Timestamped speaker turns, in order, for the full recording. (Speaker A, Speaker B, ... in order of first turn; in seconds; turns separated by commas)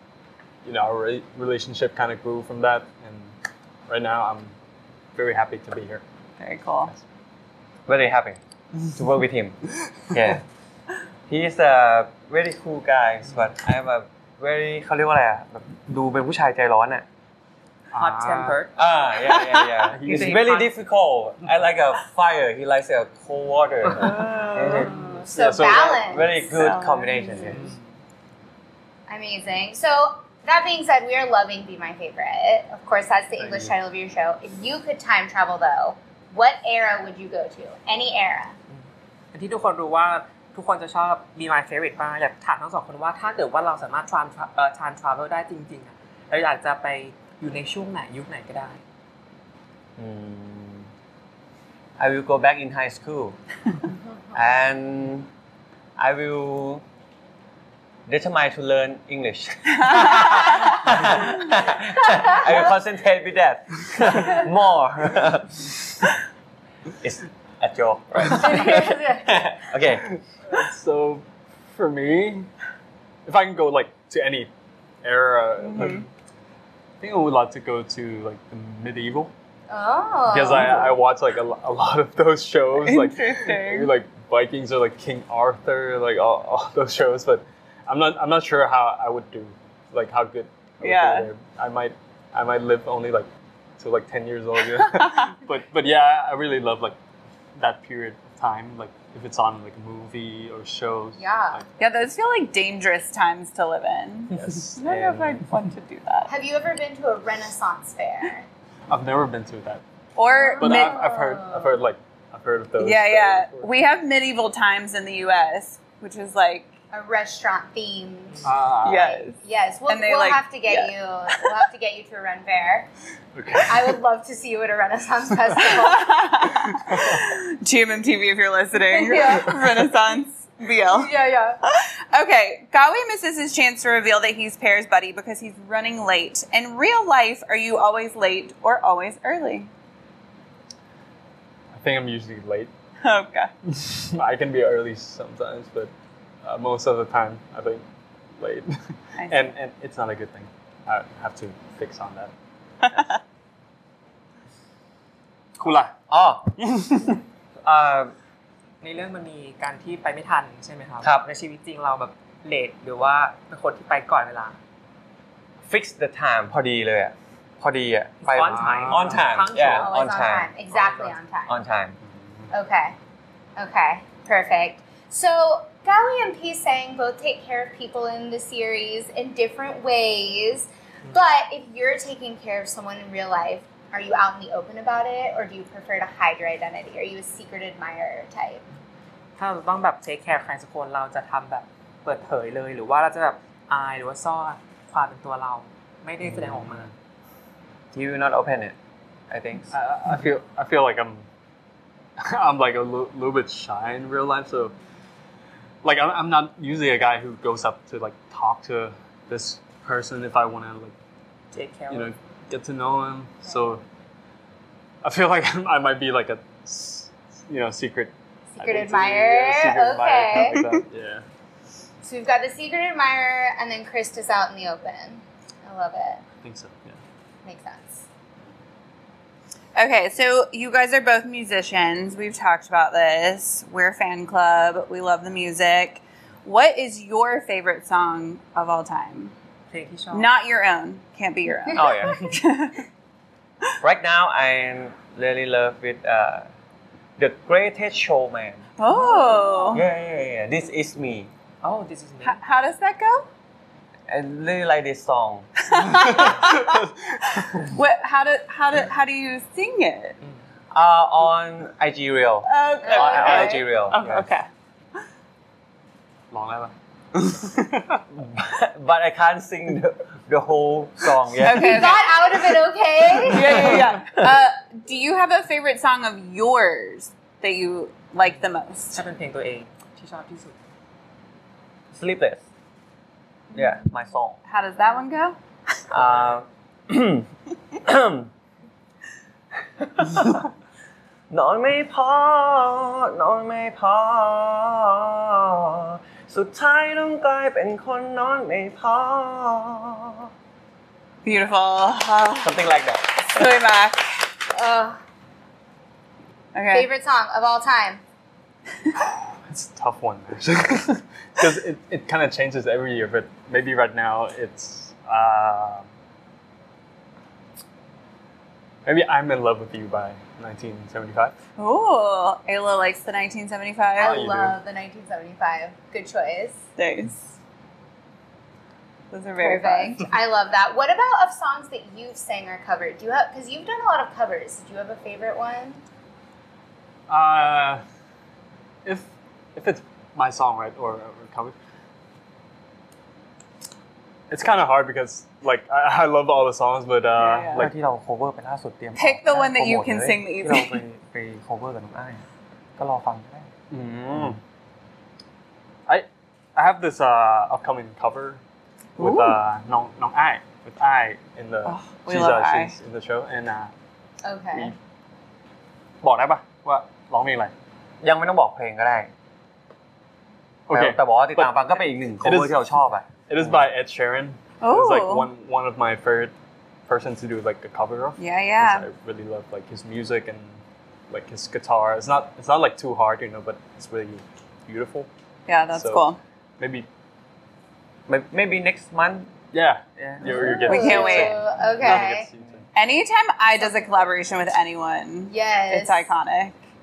Speaker A: 0.6-3.3, Speaker A: 3.9-4.5, Speaker A: 5.2-6.0, Speaker B: 6.4-6.9, Speaker C: 7.9-8.4, Speaker C: 8.9-9.6, Speaker C: 10.1-10.4, Speaker C: 11.3-17.1, Speaker A: 17.9-18.6, Speaker D: 18.0-18.7, Speaker C: 18.8-24.9, Speaker B: 19.4-19.7, Speaker A: 19.9-20.4, Speaker D: 20.0-20.7, Speaker D: 23.9-24.5, Speaker A: 24.2-25.9, Speaker E: 24.7-26.6, Speaker C: 25.5-27.7, Speaker B: 26.5-27.6, Speaker D: 27.5-27.8, Speaker E: 29.1-38.6, Speaker A: 33.4-33.7, Speaker D: 38.7-48.8, Speaker C: 50.0-50.9, Speaker C: 52.0-53.4, Speaker C: 54.3-55.3, Speaker C: 56.0-56.8, Speaker C: 58.1-66.1, Speaker B: 60.0-60.7, Speaker C: 67.0-70.1, Speaker E: 68.3-69.3, Speaker A: 70.0-72.5, Speaker A: 73.3-74.5, Speaker A: 75.0-76.1, Speaker B: 75.6-76.0, Speaker A: 77.0-79.3, Speaker E: 79.7-81.0, Speaker A: 80.3-97.0, Speaker B: 82.8-83.9, Speaker B: 90.8-91.3, Speaker A: 97.6-101.6, Speaker E: 101.2-101.6, Speaker B: 101.8-106.3, Speaker A: 104.3-105.5, Speaker E: 106.3-108.5, Speaker A: 108.9-109.8, Speaker B: 110.2-111.2, Speaker E: 110.3-111.8, Speaker A: 110.6-113.7, Speaker B: 112.8-116.7, Speaker E: 116.9-122.9, Speaker A: 118.4-119.1, Speaker B: 118.8-119.3, Speaker B: 119.9-121.5, Speaker A: 123.3-124.0, Speaker E: 123.7-126.4, Speaker B: 125.6-131.1, Speaker A: 126.5-127.3, Speaker E: 128.9-129.7, Speaker A: 129.5-129.8, Speaker E: 130.8-131.6, Speaker B: 131.6-139.7, Speaker A: 141.7-142.7, Speaker B: 143.0-143.5, Speaker A: 143.7-145.9, Speaker A: 146.4-147.8, Speaker A: 148.4-152.3, Speaker B: 149.2-149.5, Speaker B: 152.8-153.2, Speaker A: 155.6-155.9, Speaker C: 156.1-156.6, Speaker A: 156.6-157.2, Speaker C: 157.6-158.1, Speaker D: 158.8-164.6, Speaker C: 161.0-161.3, Speaker C: 165.6-170.5, Speaker D: 168.2-169.9, Speaker A: 168.4-169.3, Speaker E: 169.8-171.6, Speaker D: 170.8-171.1, Speaker C: 171.5-172.0, Speaker A: 172.1-172.4, Speaker E: 172.5-173.0, Speaker E: 173.6-188.6, Speaker D: 189.4-196.9, Speaker A: 196.4-196.8, Speaker C: 197.9-198.8, Speaker C: 199.3-199.7, Speaker A: 199.7-201.3, Speaker A: 202.2-204.8, Speaker A: 205.8-210.9, Speaker D: 211.5-212.1, Speaker A: 211.9-213.8, Speaker A: 215.0-221.2, Speaker E: 218.5-220.6, Speaker E: 222.0-226.2, Speaker A: 226.4-227.0, Speaker E: 227.4-228.1, Speaker B: 229.8-239.3, Speaker D: 239.7-240.3, Speaker B: 240.1-242.9, Speaker C: 241.7-242.3, Speaker C: 243.8-246.5, Speaker C: 247.2-248.7, Speaker B: 248.8-249.8, Speaker D: 249.0-249.5, Speaker E: 249.1-249.8, Speaker C: 249.7-251.3, Speaker D: 251.6-252.4, Speaker B: 252.2-253.3, Speaker C: 254.1-255.5, Speaker B: 255.7-256.7, Speaker A: 256.0-257.7, Speaker B: 257.4-260.2, Speaker C: 260.7-264.2, Speaker B: 262.5-264.5, Speaker A: 263.0-264.2, Speaker A: 266.3-268.0, Speaker C: 268.1-272.0, Speaker B: 271.4-272.4, Speaker E: 271.5-273.7, Speaker B: 273.2-279.0, Speaker C: 273.5-274.3, Speaker D: 278.2-280.6, Speaker C: 281.9-282.4, Speaker C: 283.5-284.4, Speaker B: 284.5-285.4, Speaker C: 285.9-288.3, Speaker D: 286.0-286.4, Speaker C: 289.8-290.5, Speaker C: 291.3-300.3, Speaker B: 301.2-302.6, Speaker C: 302.4-303.2, Speaker B: 303.2-304.3, Speaker E: 304.5-305.0, Speaker B: 306.5-306.9, Speaker E: 306.7-308.0, Speaker A: 309.0-315.9, Speaker A: 318.9-321.4, Speaker B: 321.6-324.2, Speaker A: 324.0-324.6, Speaker E: 324.0-326.6, Speaker B: 326.8-327.3, Speaker B: 329.1-330.1, Speaker E: 329.4-335.8, Speaker A: 337.1-337.8, Speaker A: 338.9-341.6, Speaker A: 344.3-347.7, Speaker C: 347.2-352.2, Speaker B: 349.0-350.8, Speaker C: 352.8-354.4, Speaker A: 353.9-354.4, Speaker A: 355.9-358.4, Speaker B: 359.0-359.4, Speaker A: 359.0-363.7, Speaker B: 361.6-362.8, Speaker E: 364.2-364.7, Speaker A: 366.0-367.5, Speaker C: 368.0-369.1, Speaker A: 370.7-371.6, Speaker C: 370.7-373.6, Speaker A: 372.2-376.3, Speaker B: 374.6-375.3, Speaker A: 376.9-380.6, Speaker B: 378.2-378.9, Speaker A: 381.1-385.1, Speaker B: 385.5-386.2, Speaker A: 385.7-386.9, Speaker C: 388.1-389.3, Speaker A: 389.5-392.6, Speaker C: 390.0-390.4, Speaker E: 390.2-392.3, Speaker B: 390.6-391.4, Speaker B: 392.8-396.6, Speaker E: 393.6-394.0, Speaker E: 395.3-396.1